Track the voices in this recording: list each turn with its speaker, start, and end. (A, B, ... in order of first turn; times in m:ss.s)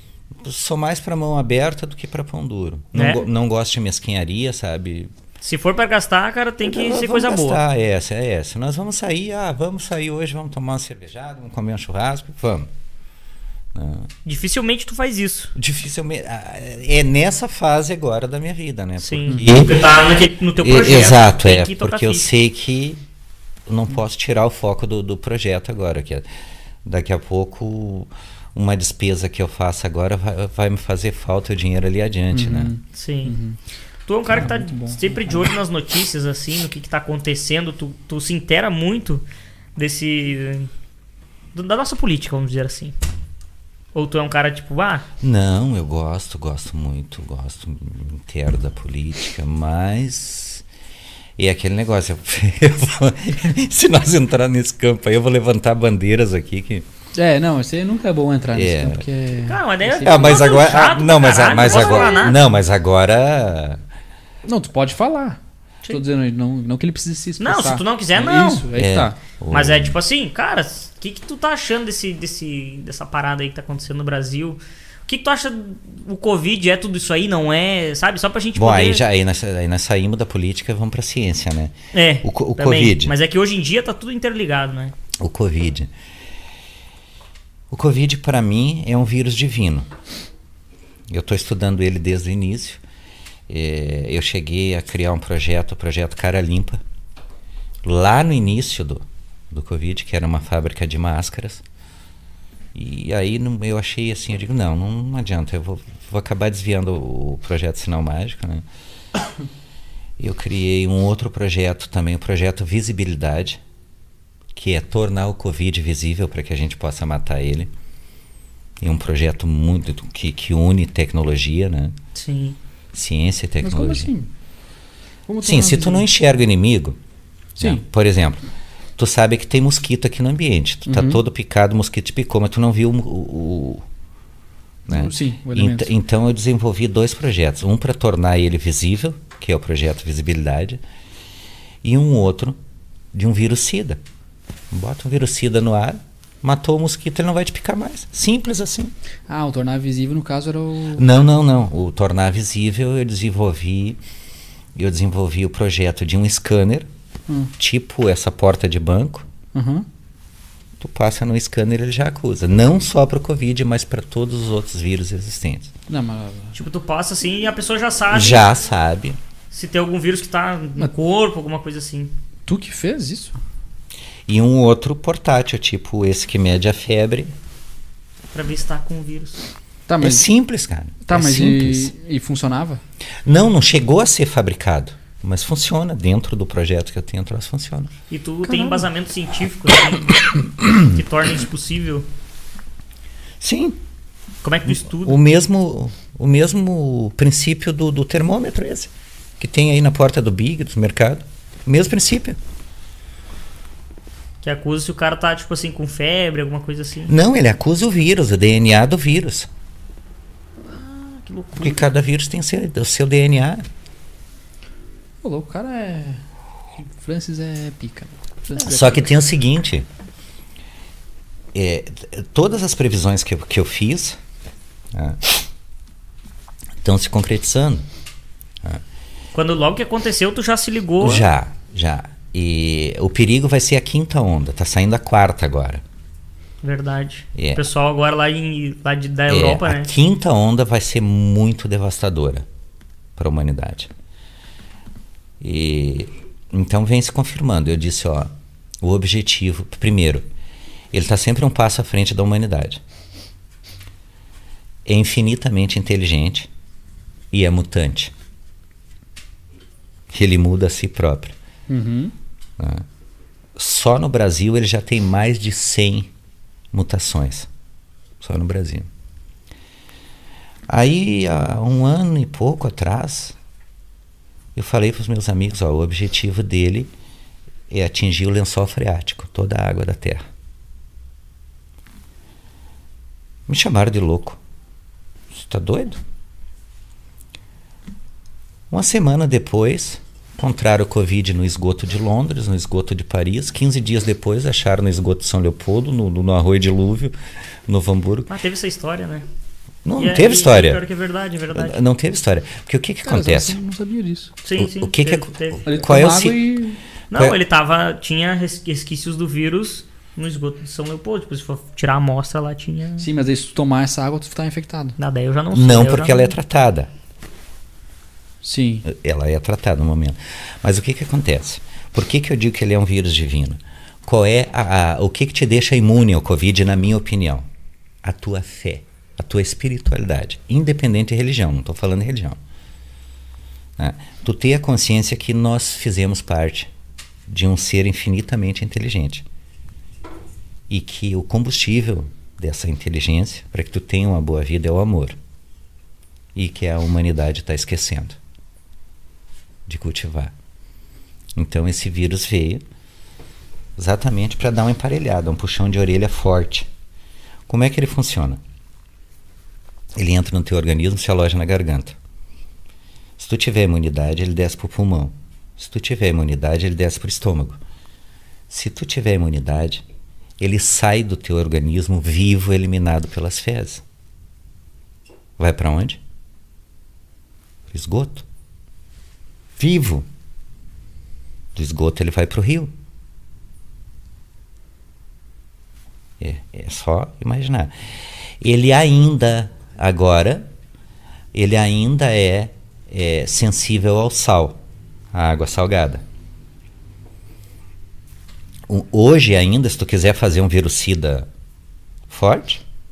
0:00.3-0:05.1 A
0:02.9-0:03.3 B
0:05.4-0:07.6 B
0:06.6-0:12.7 A
0:13.7-0:14.1 A
0:14.2-0:15.5 B
0:15.6-0:19.9 A
0:19.0-0:22.3 B
0:20.6-0:23.0 A
0:23.7-0:26.3 A
0:26.8-0:32.7 A
0:32.3-0:33.6 C
0:32.9-0:33.4 B
0:34.1-0:39.2 B
0:34.3-0:35.5 C
0:39.8-0:40.7 B
0:41.5-0:42.9 B
0:43.9-0:45.1 B
0:45.2-0:50.6 A
0:51.4-0:56.9 A
0:57.2-1:00.4 C
0:58.5-0:59.0 A
0:59.5-1:02.4 B
1:00.0-1:03.8 A
1:04.4-1:09.2 C
1:07.4-1:08.7 B
1:08.7-1:10.0 A
1:09.5-1:19.0 B
1:18.6-1:23.2 A
1:21.9-1:24.9 B
1:25.2-1:25.9 A
1:27.7-1:29.9 A
1:31.1-1:32.8 A
1:33.5-1:36.8 A
1:37.8-1:41.6 A
1:42.8-1:48.6 A
1:50.2-1:53.6 A
1:54.6-1:57.7 A
1:58.8-2:02.0 A
2:02.2-2:02.6 B
2:02.9-2:04.1 A
2:03.6-2:04.3 C
2:05.3-2:06.1 C
2:05.4-2:07.0 A
2:07.6-2:07.8 C
2:07.6-2:08.4 A
2:09.0-2:13.8 A
2:10.9-2:11.2 C
2:14.9-2:20.8 A
2:14.9-2:15.9 C
2:21.8-2:22.6 A
2:23.1-2:24.0 A
2:24.7-2:28.9 A
2:29.3-2:31.1 C
2:31.0-2:34.0 A
2:34.8-2:36.9 A
2:37.6-2:39.3 A
2:39.5-2:39.9 C
2:40.8-2:45.7 A
2:45.9-2:46.6 C
2:46.6-2:48.4 B
2:48.1-2:49.2 A
2:49.5-2:52.1 B
2:52.5-2:53.4 C
2:54.3-2:57.3 A
2:58.3-2:59.5 B
2:59.9-3:00.3 C
3:00.0-3:01.9 A
3:01.0-3:02.8 C
3:03.2-3:07.9 A
3:08.1-3:12.1 B
3:08.4-3:08.9 C
3:13.4-3:13.8 A
3:14.4-3:15.2 B
3:14.7-3:22.4 A
3:24.4-3:27.1 B
3:27.1-3:29.5 A
3:30.6-3:31.9 B
3:31.6-3:33.6 A
3:35.2-3:36.2 C
3:36.8-3:39.1 C
3:38.6-3:39.9 A
3:41.5-3:44.2 A
3:44.9-3:45.4 A
3:46.8-3:47.8 A
3:49.3-3:51.3 B
3:51.0-3:55.8 A
3:56.6-3:59.9 B
3:57.4-3:57.7 A
3:59.3-4:02.5 A
4:03.2-4:03.9 A
4:05.4-4:10.2 A
4:10.9-4:12.8 A
4:14.8-4:16.5 A
4:17.3-4:18.1 A
4:20.1-4:21.4 A
4:21.7-4:22.1 C
4:22.6-4:22.9 A
4:23.6-4:26.1 A
4:26.7-4:27.5 A
4:28.2-4:28.9 A
4:30.7-4:33.4 A
4:34.6-4:36.9 A
4:37.7-4:40.2 A
4:43.5-4:44.4 A
4:45.3-4:46.0 A
4:48.7-4:57.2 A
4:57.7-4:58.3 A
4:58.3-4:59.3 B
4:59.8-5:00.8 A
5:00.0-5:01.8 B
5:01.5-5:03.6 A
5:03.0-5:04.3 C
5:04.4-5:05.6 B
5:04.6-5:06.6 A
5:05.6-5:06.8 C
5:07.1-5:13.1 B
5:07.1-5:07.4 A
5:13.0-5:15.0 C
5:15.0-5:16.3 B
5:15.5-5:16.9 A
5:18.4-5:18.9 C
5:18.8-5:27.5 A
5:28.0-5:32.4 A
5:33.8-5:36.7 A
5:37.3-5:39.3 A
5:40.7-5:45.2 A
5:46.4-5:48.2 A
5:49.7-5:50.3 A
5:51.4-5:52.6 A
5:53.8-5:56.7 A
5:57.5-5:58.4 A
6:00.0-6:02.0 A
6:03.2-6:07.6 A
6:08.5-6:09.8 A
6:10.4-6:13.8 A
6:15.4-6:16.0 A
6:17.7-6:18.2 A
6:19.6-6:20.1 A
6:21.6-6:22.7 A
6:26.2-6:30.5 A
6:31.3-6:34.6 A
6:35.1-6:36.0 A
6:38.7-6:41.3 A
6:42.1-6:42.6 A